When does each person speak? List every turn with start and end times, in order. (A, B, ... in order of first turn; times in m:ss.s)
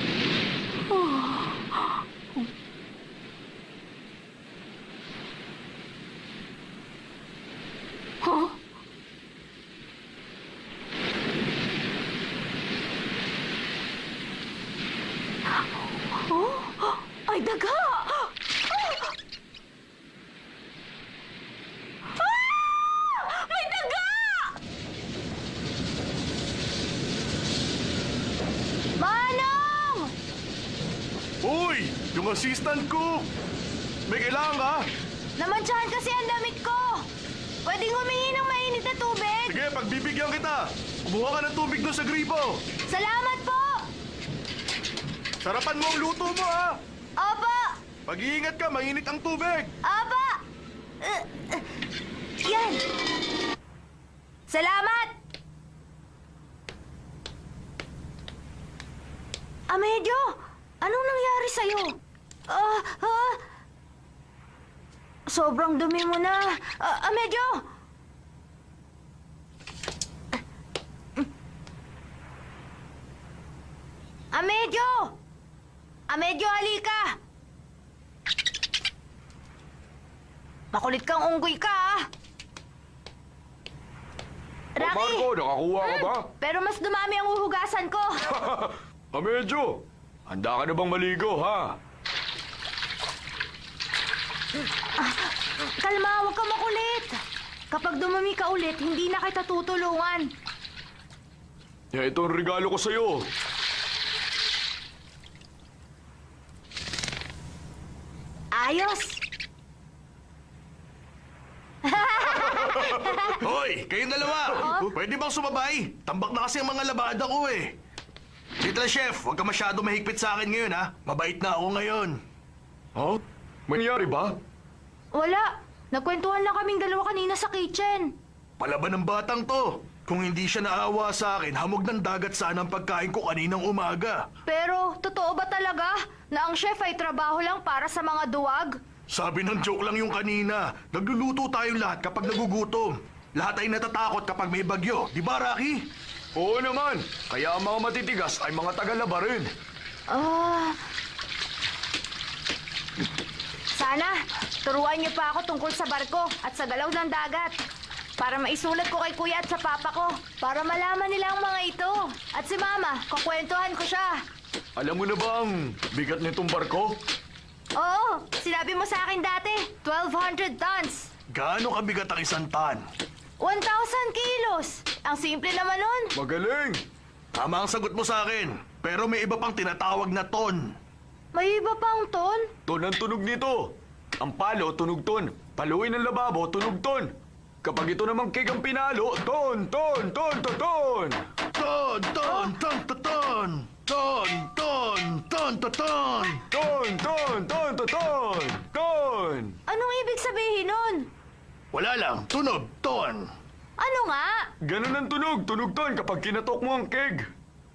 0:00.9-0:01.6 A
0:08.2-0:08.5 A
0:16.1-0:19.0 A
0:22.2-0:24.6 A
0:29.0-0:30.1 A
0:31.4-0:33.3 B
0:34.1-0:34.9 B
0:35.4-0:37.1 A
0:37.6-0:39.6 A
0:39.5-0:42.6 B
0:42.9-0:43.9 A
0:45.4-0:46.8 B
0:47.2-0:47.8 A
0:48.1-0:49.7 B
0:49.8-0:50.4 A
0:51.0-0:51.7 A
0:52.4-0:52.8 A
0:54.5-0:55.2 A
0:59.7-1:03.4 A
1:05.3-1:07.6 A
1:14.3-1:15.2 A
1:16.1-1:17.2 A
1:20.7-1:22.1 A
1:24.8-1:25.3 A
1:24.8-1:26.3 C
1:25.8-1:28.3 A
1:28.3-1:31.8 C
1:35.0-1:40.3 A
1:41.9-1:43.3 C
1:48.5-1:49.2 A
1:51.8-1:53.4 A
1:53.4-1:57.7 B
1:54.6-1:54.9 A
1:58.6-2:02.2 B
2:03.0-2:04.4 C
2:05.1-2:08.1 A
2:08.6-2:14.3 B
2:14.5-2:18.8 A
2:19.1-2:25.9 B
2:26.4-2:29.5 C
2:30.1-2:30.8 A
2:33.8-2:37.5 A
2:38.2-2:44.2 A
2:44.8-2:47.0 C
2:47.8-2:51.1 A
2:51.3-2:52.8 B
2:53.4-2:56.1 A
2:56.2-2:56.8 C
2:57.4-3:00.7 B
3:01.3-3:02.5 A
3:02.7-3:07.1 C
3:07.6-3:11.2 C
3:11.6-3:16.4 B
3:12.2-3:12.5 A
3:16.4-3:19.6 C
3:19.7-3:21.1 A
3:21.7-3:23.3 B
3:23.8-3:24.5 A
3:24.6-3:27.3 C